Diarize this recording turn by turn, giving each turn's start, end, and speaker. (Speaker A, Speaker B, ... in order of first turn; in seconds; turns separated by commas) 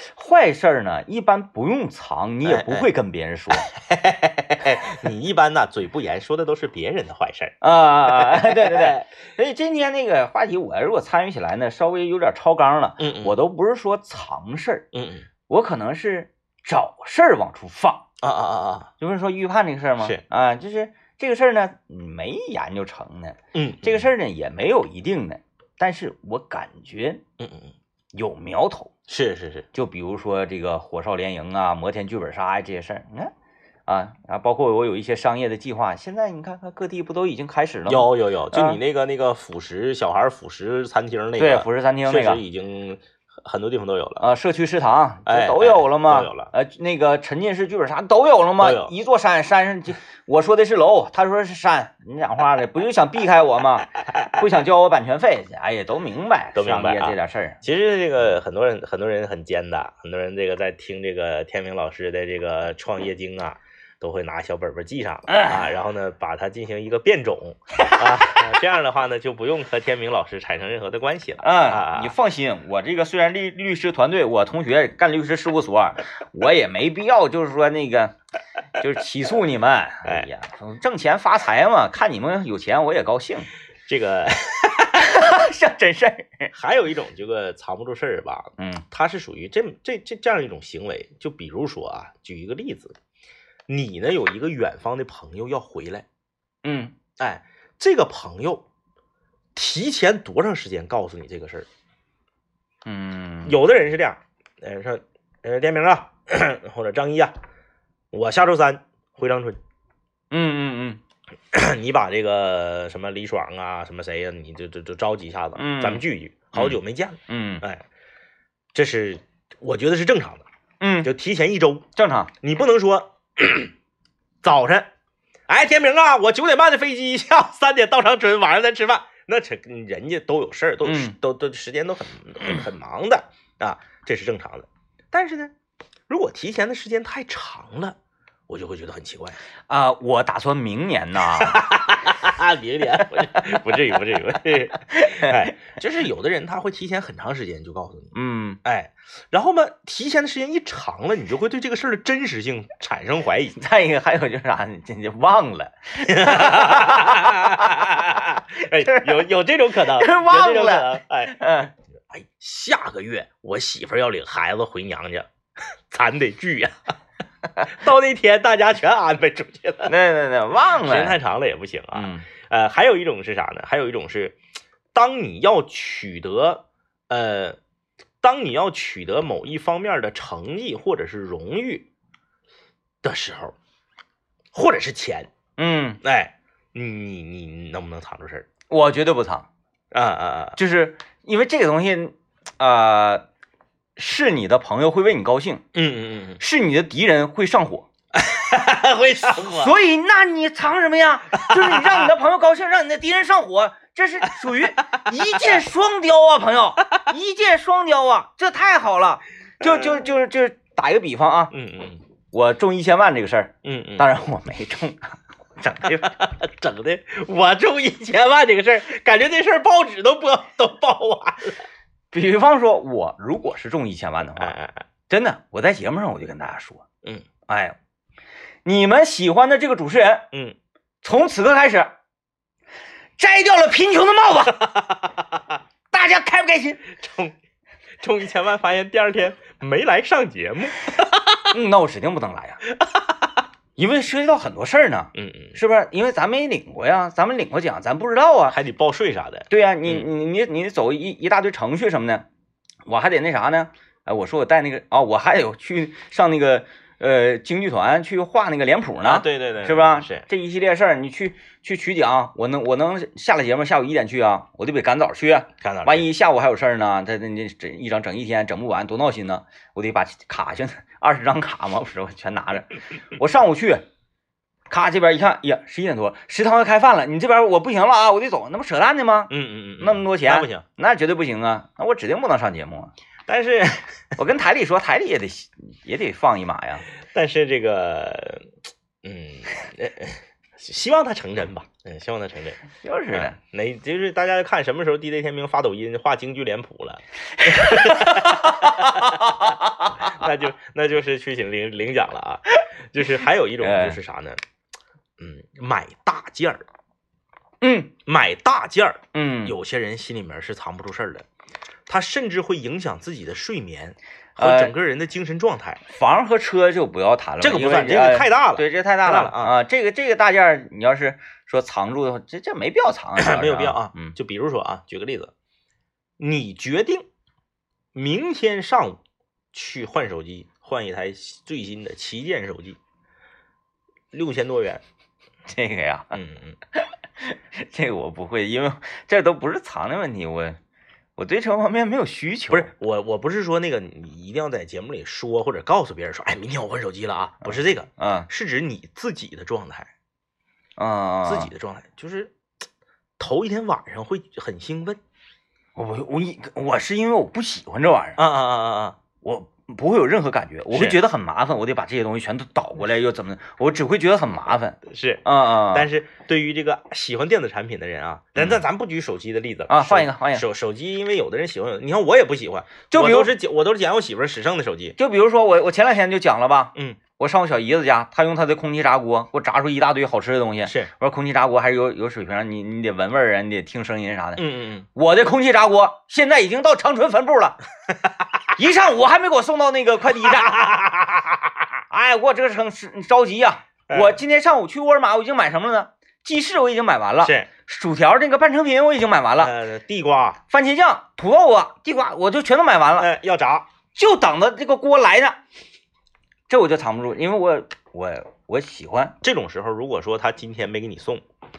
Speaker A: 0.2-3.7, Speaker B: 2.5-2.9, Speaker B: 3.6-9.1, Speaker A: 7.6-14.9, Speaker B: 13.0-13.4, Speaker B: 14.9-15.3, Speaker A: 15.5-18.1, Speaker B: 18.2-18.9, Speaker A: 19.0-27.2, Speaker B: 23.5-24.1, Speaker B: 27.4-27.7, Speaker A: 28.1-28.9, Speaker B: 29.1-29.7, Speaker A: 29.7-33.3, Speaker A: 33.9-38.8, Speaker B: 37.9-44.2, Speaker A: 41.4-42.4, Speaker A: 44.2-57.6, Speaker B: 45.3-46.5, Speaker B: 48.6-48.9, Speaker B: 56.5-72.1, Speaker A: 65.3-65.7, Speaker A: 71.4-78.2, Speaker A: 78.8-83.5, Speaker B: 83.9-85.1, Speaker A: 85.0-86.5, Speaker B: 86.5-93.0, Speaker A: 88.6-88.8, Speaker B: 93.7-96.1, Speaker A: 96.6-96.9, Speaker B: 97.2-98.7, Speaker B: 99.5-101.7, Speaker A: 102.9-103.6, Speaker B: 103.5-107.4, Speaker B: 108.1-109.6, Speaker A: 110.3-111.0, Speaker B: 111.5-117.8, Speaker A: 115.6-116.0, Speaker A: 116.5-117.6, Speaker B: 118.7-120.4, Speaker A: 120.8-121.1, Speaker B: 121.0-121.9, Speaker A: 122.0-122.3, Speaker B: 122.4-123.7, Speaker B: 124.4-124.9, Speaker B: 125.5-135.5, Speaker A: 130.8-131.2, Speaker B: 136.1-138.0, Speaker B: 138.5-139.4, Speaker A: 139.7-141.7, Speaker B: 141.3-148.1, Speaker A: 144.9-145.5, Speaker A: 148.1-148.6, Speaker B: 148.6-153.6, Speaker A: 153.6-159.2, Speaker B: 156.1-161.4, Speaker A: 159.8-161.7, Speaker B: 162.1-165.3, Speaker B: 165.9-166.9, Speaker B: 167.6-169.9, Speaker A: 169.9-171.2, Speaker B: 170.8-174.4, Speaker A: 171.9-172.3, Speaker B: 174.9-177.6, Speaker B: 178.2-181.9, Speaker B: 183.0-183.6, Speaker B: 184.5-185.3, Speaker A: 185.6-186.0, Speaker B: 186.0-188.5, Speaker A: 188.7-189.5, Speaker B: 189.9-190.6, Speaker A: 190.6-193.3, Speaker A: 194.0-195.7, Speaker B: 195.7-196.4, Speaker A: 196.4-197.9, Speaker B: 198.1-199.7, Speaker A: 199.4-211.5, Speaker B: 201.4-202.1, Speaker B: 205.3-205.6, Speaker B: 209.6-210.1, Speaker B: 211.5-212.0, Speaker A: 212.3-216.1, Speaker B: 213.6-214.1, Speaker B: 215.8-221.6, Speaker A: 222.1-224.6, Speaker B: 224.4-224.8, Speaker A: 225.1-226.8, Speaker A: 227.5-227.8, Speaker A: 228.7-230.3, Speaker A: 231.0-231.9, Speaker A: 233.2-234.7, Speaker B: 234.6-235.2, Speaker A: 235.9-236.8, Speaker B: 236.9-237.3, Speaker B: 238.0-241.4, Speaker A: 241.5-242.6, Speaker B: 242.8-243.1, Speaker A: 243.8-248.6, Speaker B: 245.2-245.6, Speaker B: 248.5-250.1, Speaker A: 249.5-252.3, Speaker A: 252.9-273.9, Speaker B: 259.0-260.3, Speaker B: 265.6-266.1, Speaker A: 274.7-282.9, Speaker B: 279.3-280.6, Speaker B: 283.3-284.0, Speaker A: 284.2-286.9, Speaker B: 287.1-288.5, Speaker B: 289.0-304.4, Speaker A: 292.8-293.4, Speaker A: 297.4-300.1, Speaker A: 303.6-304.0, Speaker B: 305.2-306.6, Speaker A: 307.6-307.9, Speaker B: 308.1-311.3, Speaker A: 309.1-309.6, Speaker B: 311.9-315.8, Speaker A: 314.4-314.7, Speaker A: 315.9-324.1, Speaker B: 317.4-319.6, Speaker B: 323.2-325.3, Speaker B: 326.2-327.1, Speaker B: 327.9-329.0, Speaker B: 329.5-332.8, Speaker B: 334.1-334.8, Speaker A: 335.5-336.2, Speaker B: 336.1-336.6, Speaker A: 336.7-340.6, Speaker A: 341.2-342.7, Speaker B: 342.5-349.9, Speaker A: 347.4-348.3, Speaker A: 350.8-351.5, Speaker B: 351.2-352.3, Speaker B: 353.2-355.0, Speaker A: 355.8-358.2, Speaker B: 358.2-359.0, Speaker A: 359.2-365.9, Speaker B: 360.7-361.0, Speaker B: 364.9-375.0, Speaker A: 369.7-370.5, Speaker A: 372.9-373.3, Speaker A: 375.0-384.4, Speaker B: 384.4-384.9, Speaker A: 384.9-387.6, Speaker A: 388.6-390.6, Speaker B: 390.2-391.6, Speaker A: 391.9-399.5, Speaker B: 393.9-394.2, Speaker B: 397.2-397.5, Speaker B: 399.4-400.4, Speaker A: 400.5-403.1, Speaker B: 403.0-403.7, Speaker A: 403.9-405.4, Speaker A: 406.5-409.1, Speaker B: 409.2-411.2